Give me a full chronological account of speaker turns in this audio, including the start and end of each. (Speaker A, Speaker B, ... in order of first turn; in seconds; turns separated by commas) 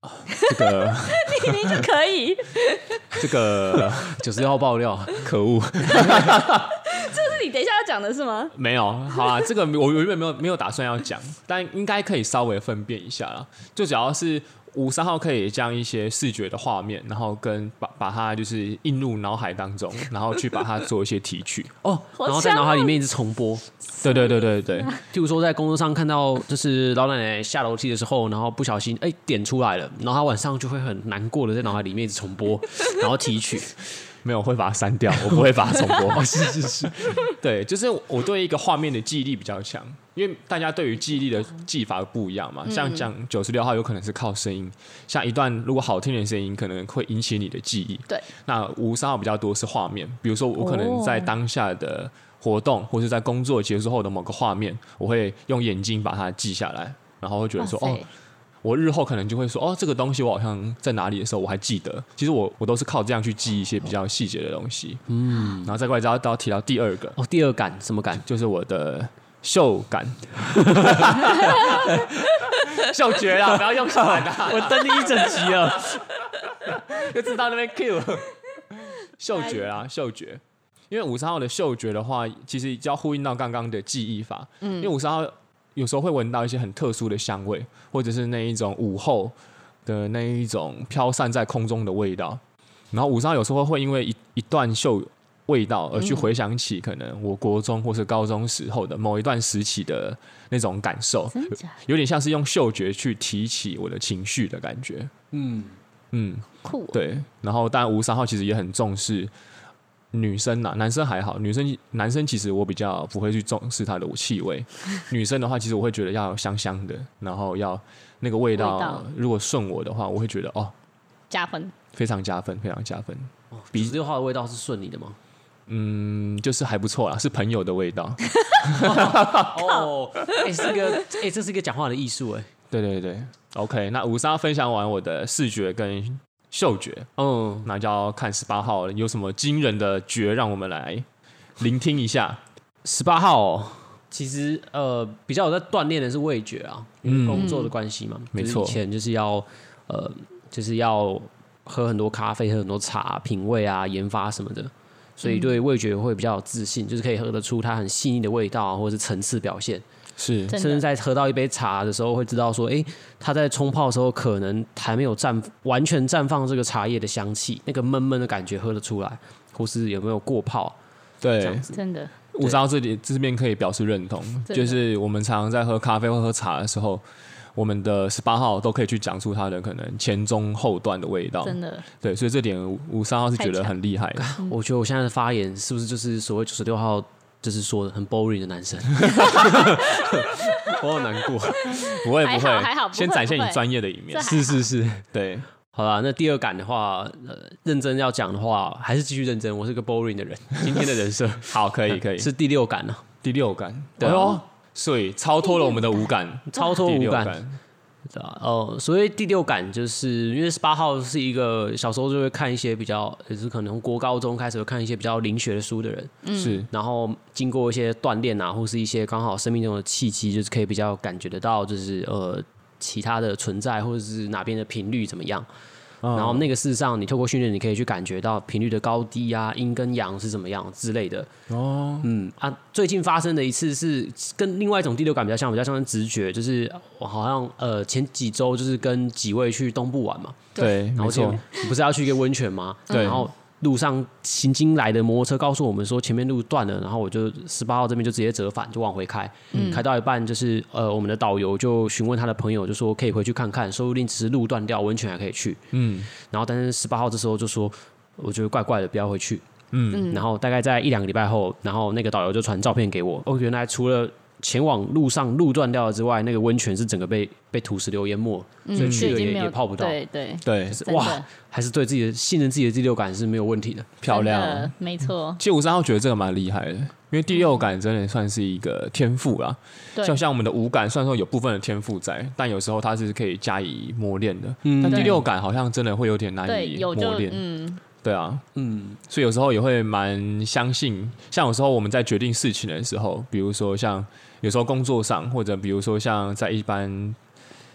Speaker A: 0.3-3.2, Speaker B: 0.5-1.8, Speaker B: 3.1-4.2, Speaker C: 4.0-5.3, Speaker B: 5.2-6.7, Speaker A: 6.2-8.5, Speaker B: 8.5-21.7, Speaker A: 9.1-9.5, Speaker C: 21.8-23.7, Speaker A: 22.1-23.0, Speaker A: 24.0-24.9, Speaker B: 24.0-25.0, Speaker C: 25.1-33.8, Speaker B: 34.2-36.3, Speaker C: 36.1-37.2, Speaker B: 37.1-58.0, Speaker A: 42.6-43.1, Speaker A: 50.6-51.3, Speaker A: 57.6-58.1, Speaker B: 58.6-65.0, Speaker C: 65.1-65.7, Speaker B: 65.6-67.2, Speaker C: 67.2-68.2, Speaker B: 68.2-89.3, Speaker C: 70.8-72.1, Speaker C: 73.3-76.0, Speaker A: 79.4-79.7, Speaker A: 84.6-84.9, Speaker B: 89.9-92.4, Speaker B: 92.9-105.1, Speaker A: 96.0-96.3, Speaker A: 101.3-101.7, Speaker C: 105.3-105.8, Speaker B: 106.1-109.3, Speaker A: 106.6-107.0, Speaker B: 110.1-120.7, Speaker A: 118.5-119.1, Speaker A: 121.3-121.7, Speaker B: 121.9-124.0, Speaker C: 123.6-125.2, Speaker B: 125.7-129.6, Speaker C: 128.8-132.5, Speaker A: 130.7-131.0, Speaker B: 132.7-137.1, Speaker C: 137.2-137.7, Speaker B: 137.6-141.1, Speaker B: 141.6-142.4, Speaker C: 142.8-159.8, Speaker B: 147.0-147.6, Speaker A: 147.3-147.7, Speaker B: 148.3-148.8, Speaker A: 155.2-155.6, Speaker B: 160.2-160.6, Speaker A: 160.5-160.8, Speaker C: 160.5-170.8, Speaker B: 171.2-171.7, Speaker C: 171.4-171.8, Speaker A: 171.7-172.1, Speaker B: 172.3-177.0, Speaker A: 174.5-174.8, Speaker B: 177.6-184.3, Speaker A: 181.4-181.9, Speaker A: 183.4-183.7, Speaker C: 184.2-191.8, Speaker A: 190.5-190.8, Speaker A: 191.6-194.7, Speaker B: 191.7-194.3, Speaker C: 194.2-195.1, Speaker B: 195.1-195.5, Speaker C: 195.7-203.0, Speaker B: 201.5-202.3, Speaker B: 203.2-207.6, Speaker C: 204.0-204.4, Speaker A: 205.6-205.8, Speaker C: 206.5-207.4, Speaker C: 208.1-225.5, Speaker A: 216.2-216.6, Speaker B: 216.4-216.7, Speaker B: 226.0-226.5, Speaker C: 226.1-231.3, Speaker B: 231.5-232.1, Speaker C: 232.0-259.4, Speaker B: 240.6-241.4, Speaker A: 242.9-243.2, Speaker B: 242.9-243.2, Speaker A: 249.5-249.8, Speaker B: 255.7-256.1, Speaker B: 259.7-260.1, Speaker A: 259.9-260.3, Speaker C: 260.1-270.0, Speaker A: 268.7-271.2, Speaker B: 268.8-269.2, Speaker B: 270.4-270.8, Speaker C: 270.7-273.9, Speaker B: 274.0-274.8, Speaker A: 274.1-275.4, Speaker B: 275.4-287.4, Speaker A: 277.3-277.6, Speaker A: 280.0-280.2, Speaker C: 284.6-285.2, Speaker A: 284.9-285.2, Speaker A: 286.5-287.8, Speaker B: 288.0-288.4, Speaker C: 288.6-289.0, Speaker B: 289.1-297.2